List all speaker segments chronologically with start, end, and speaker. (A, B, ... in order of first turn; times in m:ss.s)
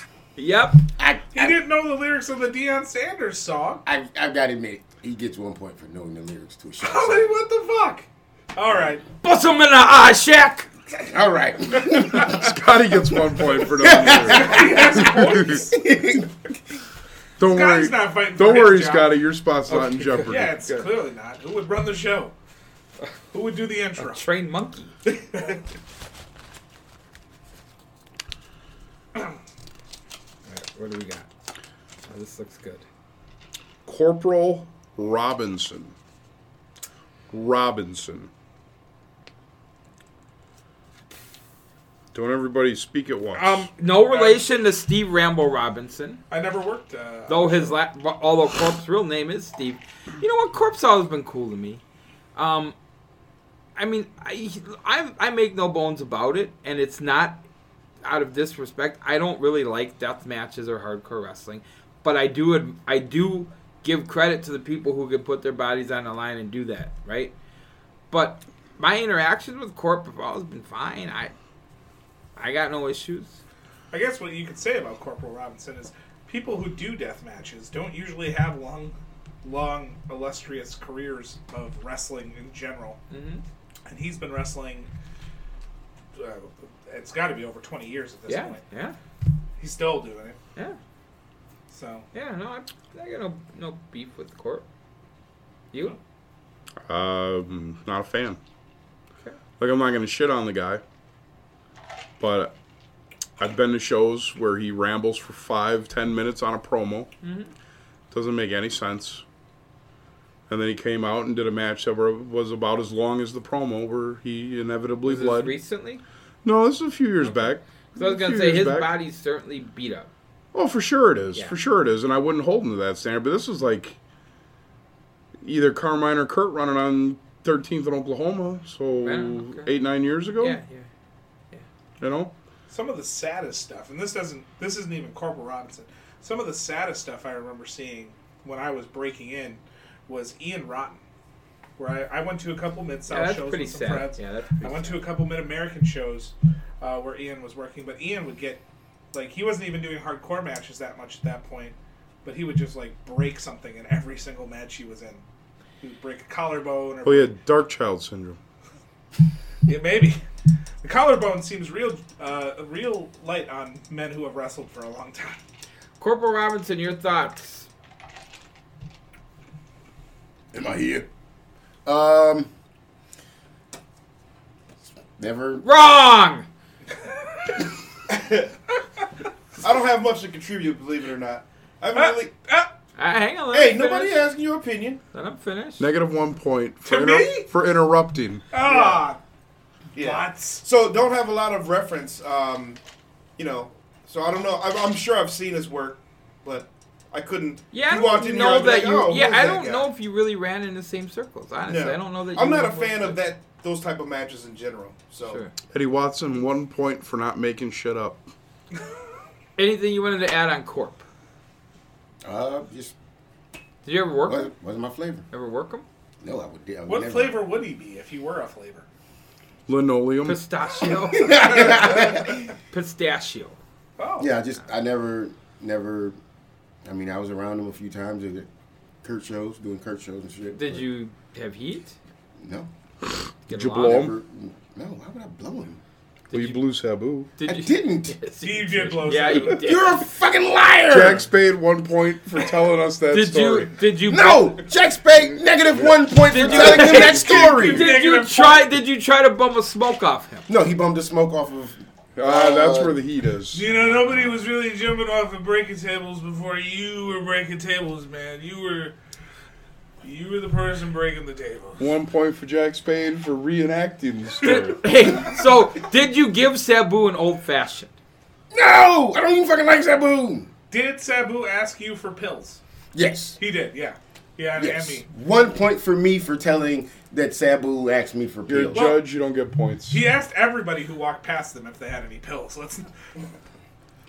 0:00.4-0:00.8 A
0:01.0-0:01.6 B
0:01.3-0:03.8 C
0:03.8-0:07.3 B
0:06.8-0:09.0 C
0:09.2-0:10.7 A
0:11.0-0:12.5 B
0:12.2-0:15.7 D
0:13.1-0:16.3 B
0:14.3-0:15.7 C
0:17.4-0:20.6 D
0:17.4-0:19.2 C
0:19.7-0:20.9 A
0:20.2-0:22.3 C
0:23.3-0:24.2 C
0:24.0-0:24.9 A
0:30.5-0:31.3 A
0:32.1-0:32.8 A
0:33.8-0:35.9 D
0:37.3-0:38.3 D
0:42.1-0:43.7 D
0:43.3-0:46.2 A
0:44.1-0:44.4 C
0:46.3-0:47.8 C
0:47.3-0:51.8 A
0:52.3-0:52.7 A
0:53.8-0:57.4 A
0:58.0-1:07.3 A
1:08.1-1:11.3 A
1:12.4-1:13.4 A
1:13.9-1:23.0 C
1:23.1-1:23.4 A
1:23.8-1:24.9 C
1:26.1-1:28.6 C
1:28.3-1:29.0 A
1:29.6-1:30.4 C
1:31.7-1:32.1 C
1:32.1-1:34.6 A
1:36.9-1:38.4 D
1:39.6-1:40.8 D
1:42.2-1:42.5 D
1:43.4-1:47.1 D
1:47.2-1:47.5 A
1:48.1-1:49.2 D
1:50.5-1:55.6 D
1:55.0-1:56.0 A
1:56.4-1:59.0 D
1:57.2-2:00.1 A
2:00.5-2:04.0 D
2:05.4-2:10.6 D
2:09.0-2:09.7 A
2:10.4-2:10.9 A
2:12.0-2:12.3 D
2:12.7-2:21.0 C
2:21.8-2:28.6 C
2:23.1-2:25.0 A
2:29.1-2:35.2 C
2:35.8-2:37.3 C
2:37.0-2:38.4 D
2:39.7-2:40.2 C
2:40.8-2:45.4 C
2:46.0-2:47.7 A
2:50.5-2:51.1 B
2:51.8-2:52.5 B
2:55.2-2:55.6 B
2:55.6-2:56.4 A
2:58.1-2:58.5 E
2:59.6-3:02.3 E
3:01.9-3:02.7 C
3:03.0-3:04.2 A
3:03.5-3:05.0 E
3:05.1-3:05.9 A
3:05.8-3:08.5 D
3:06.8-3:07.5 C
3:08.5-3:09.2 C
3:08.6-3:09.1 E
3:09.9-3:12.8 E
3:10.0-3:10.6 C
3:13.4-3:19.9 E
3:17.7-3:23.2 A
3:21.6-3:25.4 E
3:25.2-3:25.5 A
3:25.7-3:28.3 D
3:29.6-3:31.0 A
3:32.2-3:32.9 B
3:33.8-3:34.5 A
3:34.2-3:35.2 B
3:35.3-3:35.8 A
3:36.2-3:37.4 B
3:36.8-3:38.8 C
3:39.7-3:40.4 D
3:40.2-3:42.1 A
3:41.1-3:42.5 B
3:42.7-3:43.6 A
3:44.0-3:44.3 C
3:44.2-3:46.2 B
3:46.8-3:48.5 B
3:49.0-3:50.9 B
3:50.5-3:52.0 A
3:52.4-3:52.7 B
3:53.5-3:54.0 A
3:53.5-3:54.2 D
3:53.8-3:55.8 B
3:56.3-3:56.6 A
3:56.3-3:57.3 D
3:57.4-4:00.0 A
3:57.4-3:58.2 B
3:58.4-3:59.6 C
3:59.5-4:01.3 B
4:00.9-4:03.8 D
4:03.1-4:04.6 A
4:04.1-4:07.9 B
4:05.7-4:07.7 D
4:06.3-4:10.5 A
4:06.8-4:08.7 C
4:10.5-4:13.0 B
4:12.2-4:14.0 D
4:13.5-4:18.9 C
4:20.0-4:21.9 C
4:21.8-4:24.8 D
4:24.4-4:27.9 A
4:28.5-4:30.5 B
4:30.7-4:32.6 C
4:32.9-4:33.4 B
4:33.4-4:35.0 C
4:34.6-4:38.9 B
4:38.5-4:40.0 D
4:38.7-4:39.0 C
4:39.9-4:42.9 C